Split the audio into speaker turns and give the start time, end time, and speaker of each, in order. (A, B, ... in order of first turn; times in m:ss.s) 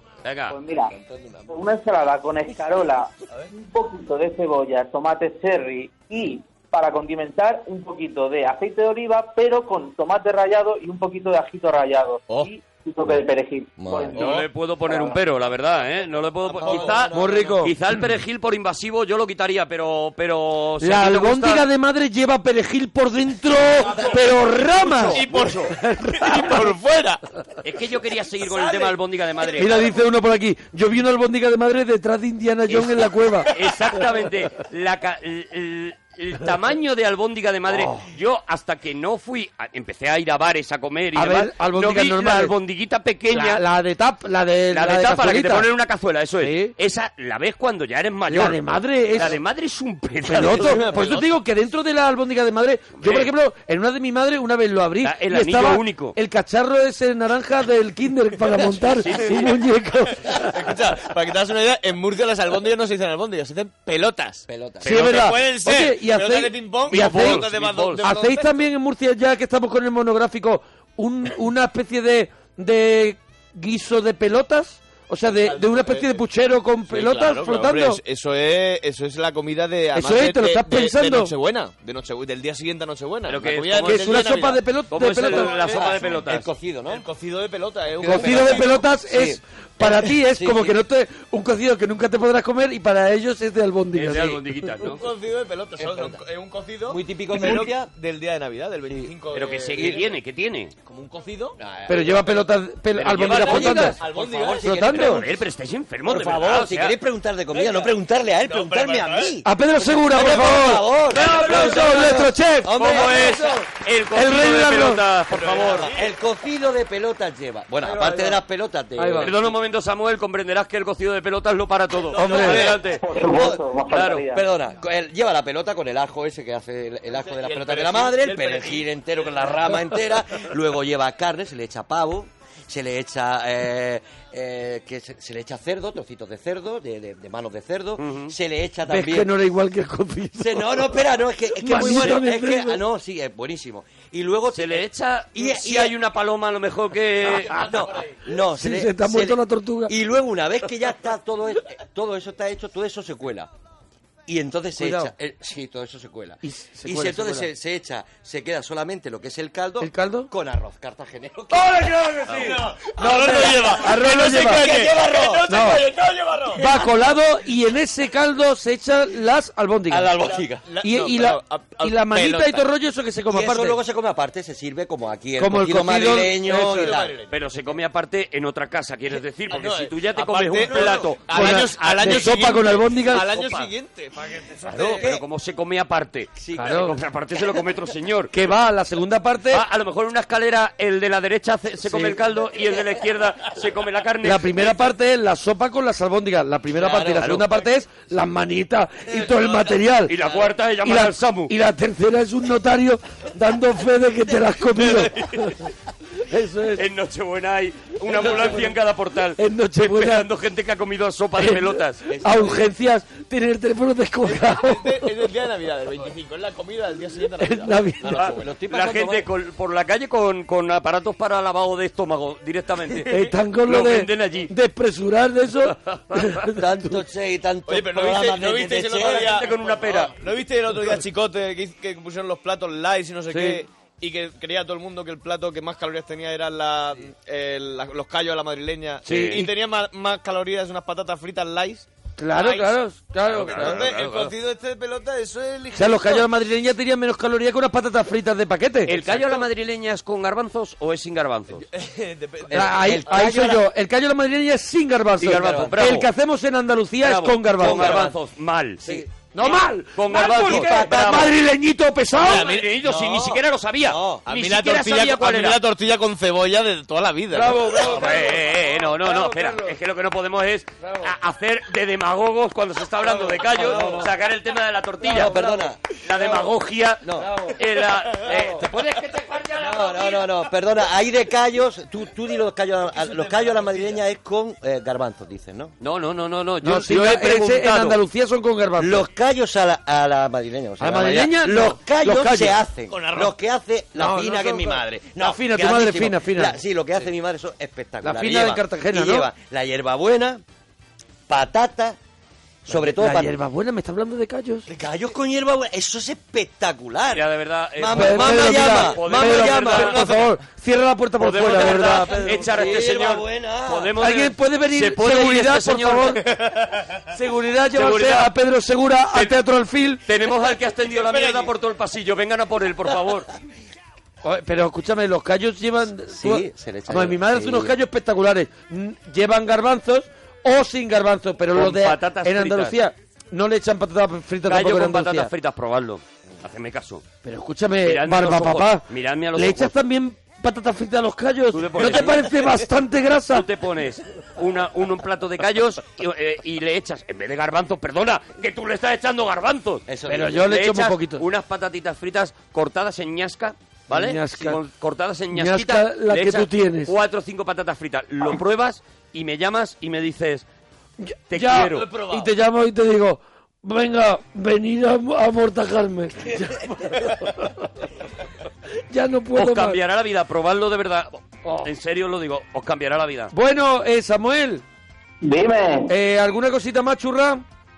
0:00.2-0:00.5 A
0:00.5-0:00.9 B
0:00.9-0:01.5 C
0:01.5-0:15.2 B
0:13.8-0:14.2 C
0:14.2-0:21.6 A
0:16.4-0:17.7 C
0:16.6-0:16.9 D
0:17.1-0:17.8 E
0:20.8-0:26.7 E
0:23.8-0:24.1 D
0:24.8-0:25.7 A
0:24.9-0:27.2 D
0:27.6-0:29.9 A
0:28.5-0:29.7 D
0:29.6-0:33.5 E
0:32.7-0:43.6 A
0:37.7-0:38.0 E
0:41.1-0:42.5 E
0:43.3-0:45.7 E
0:44.7-0:48.6 A
0:46.4-0:46.7 E
0:48.3-0:49.4 E
0:49.1-0:51.0 A
0:50.2-1:00.6 E
0:50.5-0:51.2 D
0:53.0-0:53.3 A
0:55.0-0:56.2 A
0:59.0-0:59.6 A
1:00.4-1:08.5 D
1:04.5-1:05.3 C
1:04.8-1:18.0 E
1:06.9-1:08.1 A
1:15.4-1:16.2 D
1:16.9-1:24.6 D
1:19.9-1:21.3 E
1:23.3-1:26.5 A
1:23.8-1:25.6 E
1:25.2-1:26.2 D
1:25.6-1:27.0 C
1:26.9-1:28.8 D
1:28.0-1:30.8 C
1:28.0-1:34.7 E
1:33.9-1:35.0 A
1:34.8-1:40.0 D
1:35.8-1:36.2 C
1:36.9-1:37.9 C
1:39.3-1:40.7 A
1:39.8-1:40.0 C
1:40.8-1:41.6 D
1:41.6-1:42.3 C
1:41.9-1:44.0 E
1:43.0-1:43.9 A
1:43.2-1:45.4 C
1:43.4-1:44.8 D
1:44.6-1:45.2 E
1:44.9-1:47.0 A
1:46.0-1:53.6 C
1:47.5-1:47.9 D
1:48.4-1:49.4 D
1:49.4-1:53.0 E
1:51.1-1:52.1 A
1:51.2-1:51.9 D
1:52.7-1:55.9 A
1:53.0-1:53.3 D
1:54.1-1:55.0 E
1:55.3-1:56.1 D
1:55.7-1:59.4 C
1:57.8-1:58.4 D
1:59.0-1:59.3 E
1:59.2-2:03.0 A
2:02.1-2:02.8 D
2:02.1-2:02.7 E
2:03.0-2:04.4 B
2:03.2-2:03.6 C
2:03.9-2:04.2 A
2:04.3-2:19.3 C
2:07.1-2:08.9 D
2:18.0-2:18.3 A
2:18.8-2:21.0 E
2:20.4-2:26.0 C
2:21.5-2:22.8 E
2:24.5-2:27.7 A
2:27.3-2:33.5 C
2:28.5-2:29.9 E
2:34.3-2:45.7 C
2:34.8-2:35.1 E
2:36.4-2:37.5 E
2:39.8-2:40.3 E
2:42.3-2:46.7 D
2:43.0-2:44.7 E
2:45.5-2:45.9 E
2:46.5-2:50.1 E
2:49.9-2:50.6 C
2:50.6-2:52.6 D
2:50.8-2:53.8 E
2:53.3-2:57.2 C
2:55.4-2:57.0 E
2:56.5-2:57.3 D
2:57.3-3:02.6 A
2:59.5-3:04.9 D
3:00.7-3:01.0 C
3:01.3-3:03.5 E
3:03.3-3:03.7 A
3:04.7-3:08.3 A
3:04.7-3:05.2 C
3:06.4-3:06.9 C
3:06.6-3:07.0 E
3:08.3-3:09.6 E
3:09.5-3:14.9 A
3:11.8-3:12.2 E
3:14.2-3:20.2 E
3:16.8-3:17.4 C
3:17.2-3:17.4 A
3:20.0-3:21.5 A
3:20.8-3:25.6 E
3:26.2-3:26.8 E
3:26.8-3:32.1 A
3:28.2-3:28.5 E
3:29.4-3:30.3 E
3:31.4-3:35.1 E
3:32.1-3:32.7 C
3:34.2-3:37.9 D
3:37.4-3:38.3 E
3:38.0-3:39.3 C
3:38.1-3:44.5 A
3:42.9-3:47.0 E
3:45.7-3:46.4 A
3:46.5-3:49.4 C
3:47.6-4:02.8 D
3:49.0-3:50.2 A
3:53.3-3:53.6 E
3:59.0-3:59.5 E
3:59.1-3:59.4 A
4:02.2-4:04.0 E
4:03.3-4:04.3 A
4:03.4-4:06.2 D
4:05.7-4:08.9 E
4:08.9-4:11.6 A
4:09.0-4:09.4 D
4:11.7-4:13.0 D
4:12.5-4:13.6 C
4:12.5-4:18.1 E
4:15.2-4:16.1 A
4:15.2-4:15.9 C
4:17.0-4:21.3 A
4:17.6-4:18.2 C
4:19.3-4:22.5 E
4:20.1-4:21.3 C
4:22.2-4:25.6 A
4:22.2-4:22.8 D
4:22.8-4:24.3 C
4:24.2-4:27.6 D
4:27.3-4:29.7 E
4:27.7-4:40.3 A
4:30.8-4:31.1 E
4:33.3-4:34.0 C
4:33.6-4:34.1 E
4:35.0-4:35.8 C
4:35.2-4:35.5 E
4:37.0-4:37.5 C
4:37.2-4:37.5 E
4:38.3-4:38.6 E
4:39.5-4:45.7 C
4:43.1-4:43.8 D
4:45.8-4:48.0 A
4:46.6-4:49.1 E
4:48.8-5:00.4 C
4:50.8-4:52.6 E
4:52.9-4:53.4 D
4:54.0-4:56.6 E
4:58.0-4:59.3 E
5:01.3-5:02.0 C
5:02.6-5:03.4 C
5:02.7-5:04.7 E
5:04.7-5:10.2 C
5:07.1-5:10.3 A
5:07.9-5:12.5 E
5:11.2-5:16.2 A
5:11.4-5:13.9 C
5:14.0-5:16.2 E
5:16.3-5:16.8 D
5:17.1-5:20.0 E
5:17.7-5:18.3 A
5:19.1-5:19.4 A
5:20.0-5:23.3 A
5:20.8-5:21.5 D
5:24.2-5:35.3 E
5:26.1-5:27.7 C
5:31.5-5:32.8 A
5:34.5-5:37.0 A
5:37.2-5:43.5 E
5:37.8-5:39.7 A
5:41.5-5:42.3 A
5:43.3-5:49.8 A
5:49.9-5:50.5 C
5:50.1-5:51.2 E
5:50.4-6:00.4 A
5:53.9-5:54.6 E
5:55.3-5:56.9 E
6:01.0-6:07.6 E
6:01.3-6:01.9 A
6:01.9-6:02.2 D
6:08.9-6:09.8 E
6:09.3-6:13.3 A
6:11.4-6:11.7 E
6:13.3-6:14.6 E
6:15.2-6:15.9 B
6:15.9-6:17.4 E